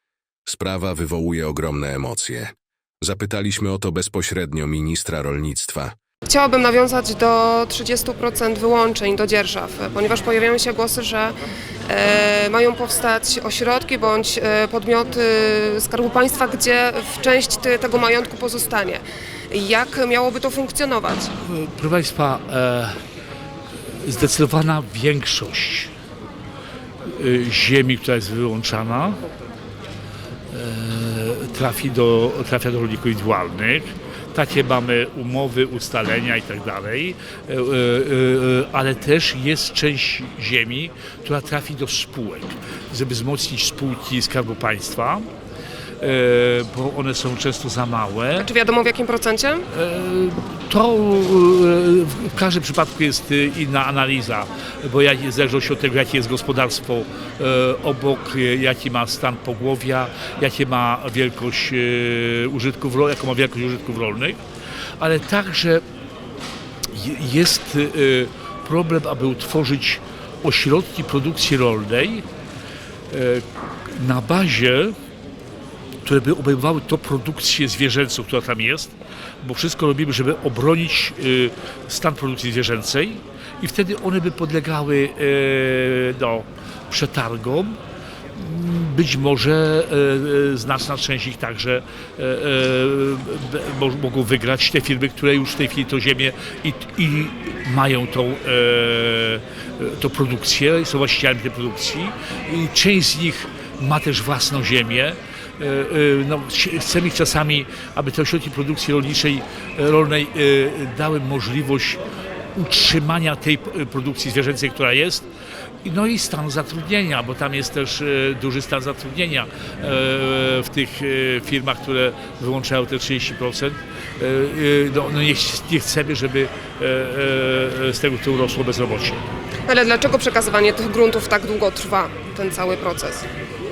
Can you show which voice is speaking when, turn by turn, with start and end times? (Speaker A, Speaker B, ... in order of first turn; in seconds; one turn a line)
Speaker A: 0.5-6.0
Speaker B: 6.3-11.4
Speaker B: 11.9-21.3
Speaker C: 21.4-23.0
Speaker C: 23.9-25.9
Speaker C: 27.1-29.2
Speaker C: 30.5-45.3
Speaker C: 46.0-48.5
Speaker B: 48.4-49.7
Speaker C: 49.7-64.4
Speaker C: 65.0-65.8
Speaker C: 66.9-72.2
Speaker C: 73.1-75.0
Speaker C: 76.0-87.8
Speaker C: 88.3-112.0
Speaker C: 112.5-115.3
Speaker C: 115.8-129.2
Speaker B: 129.7-133.3